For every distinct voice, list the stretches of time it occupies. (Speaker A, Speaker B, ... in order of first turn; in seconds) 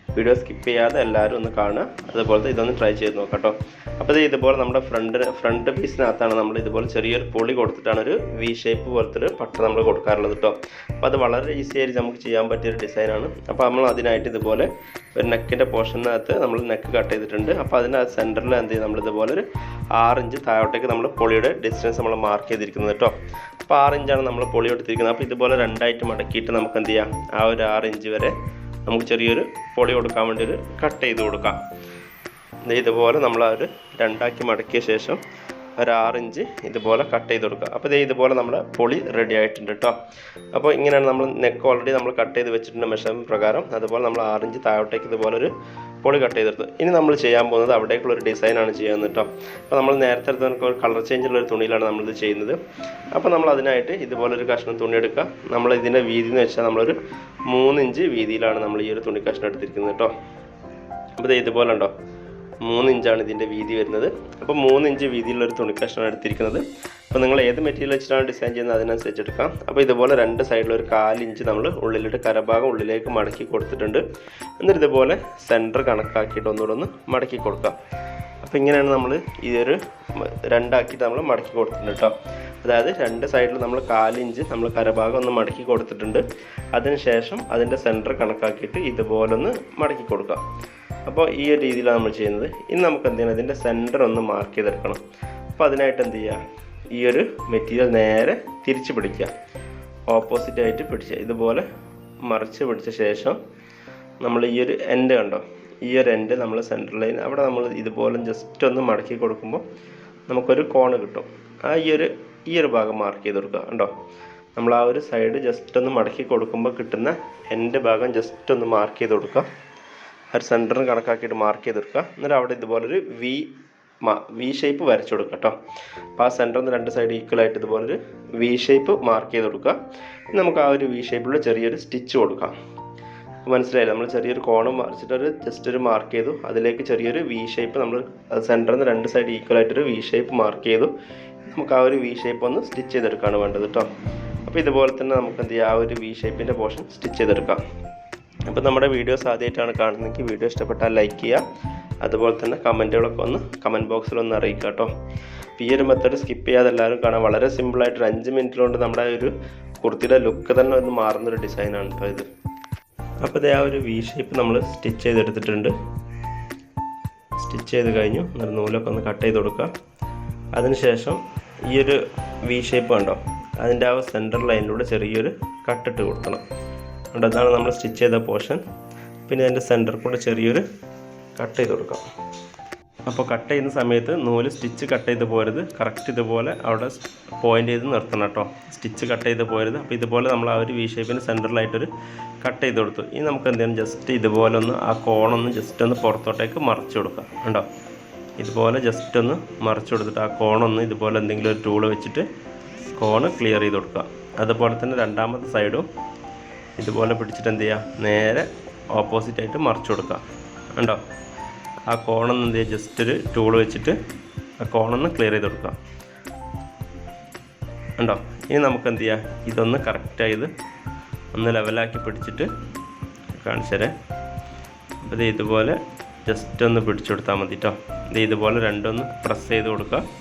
Speaker A: 0.2-19.4, 19.9-23.1, 23.7-28.3, 28.9-31.6, 32.6-35.2, 35.8-40.0, 40.5-45.5, 46.0-52.6, 53.1-57.0, 57.5-60.1, 61.2-61.9, 62.6-74.0, 74.6-77.8, 78.4-86.2, 86.8-90.4, 91.1-95.0, 95.6-96.4, 96.9-99.3, 100.1-101.7, 102.2-103.4, 104.2-109.6, 110.3-113.9, 114.6-119.5, 120.3-123.5, 124.0-125.6, 126.2-129.8, 130.3-132.6, 133.4-140.9, 141.5-143.9, 144.5-147.6, 148.5-151.4, 152.0-154.9, 155.6-162.3, 163.2-165.7, 167.4-169.7, 170.6-176.4, 177.1-178.6, 179.3-180.6, 181.4-182.1, 183.1-191.9, 192.4-197.7, 198.4-202.3, 203.0-205.9, 206.8-210.2, 210.8-211.0, 211.9-214.0, 214.6-215.8, 218.0-220.5, 221.3-222.5, 223.4-223.9, 225.0-230.0